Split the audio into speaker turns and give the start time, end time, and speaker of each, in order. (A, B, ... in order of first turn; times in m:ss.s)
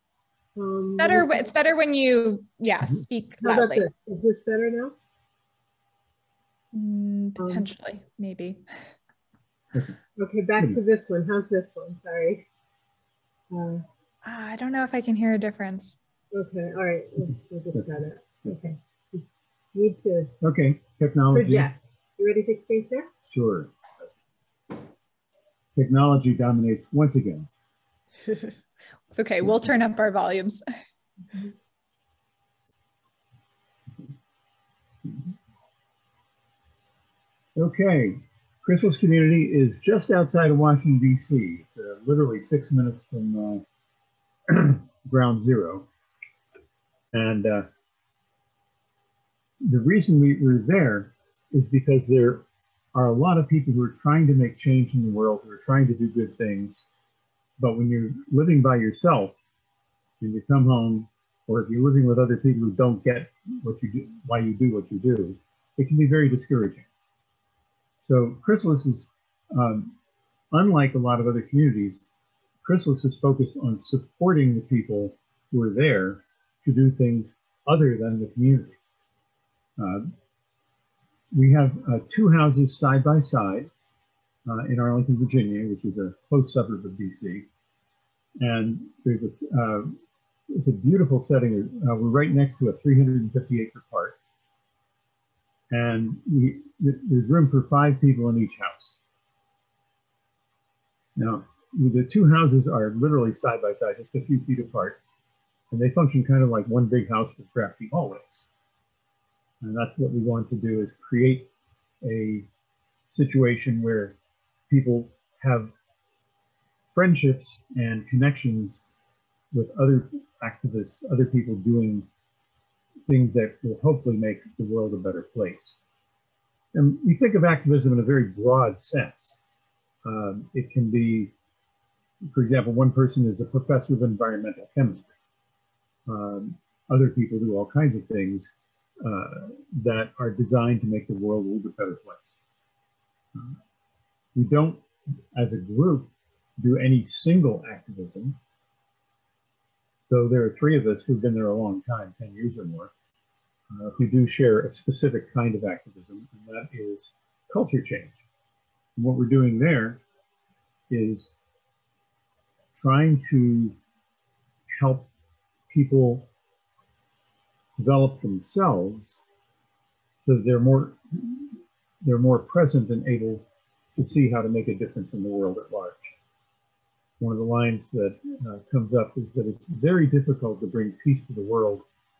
0:00.6-0:01.4 A
0:01.0-0:03.9 B
0:03.4-0:05.0 A
0:06.7-0:08.9 B
0:07.4-0:07.7 A
0:09.7-0:10.0 C
0:10.2-0:12.4 A
0:13.5-0:13.8 A
0:14.2-0:16.0 B
0:16.3-0:20.3 A
0:17.7-0:18.7 C
0:20.4-0:21.7 C
0:21.3-0:23.1 A
0:23.3-0:23.7 C
0:25.8-0:27.5 C
0:29.1-0:30.6 B
0:35.0-0:35.3 C
0:37.6-0:43.6 C
0:44.5-0:45.9 C
0:47.1-0:47.7 C
0:49.6-0:56.8 C
0:57.6-0:59.4 C
1:00.2-1:06.9 C
1:08.0-1:10.0 C
1:10.5-1:12.0 C
1:12.6-1:18.8 C
1:19.8-1:20.1 C
1:21.3-1:23.7 C
1:24.5-1:27.5 C
1:28.4-1:30.0 C
1:30.5-1:34.2 C
1:35.7-1:39.0 C
1:41.2-1:45.0 C
1:45.7-1:48.5 C
1:49.6-1:51.5 C
1:52.0-1:52.5 C
1:53.1-1:54.2 C
1:54.7-1:55.7 C
1:56.9-1:58.8 C
1:59.5-2:02.1 C
2:03.1-2:05.8 C
2:06.7-2:09.4 C
2:10.0-2:11.3 C
2:12.3-2:15.1 C
2:16.1-2:18.5 C
2:19.0-2:22.4 C
2:24.4-2:28.4 C
2:30.1-2:32.9 C
2:33.7-2:38.2 C
2:39.0-2:40.0 C
2:40.9-2:41.3 C
2:42.8-2:43.8 C
2:44.8-2:45.1 C
2:45.7-2:46.3 C
2:47.8-2:49.2 C
2:50.2-2:56.1 C
2:57.2-3:01.8 C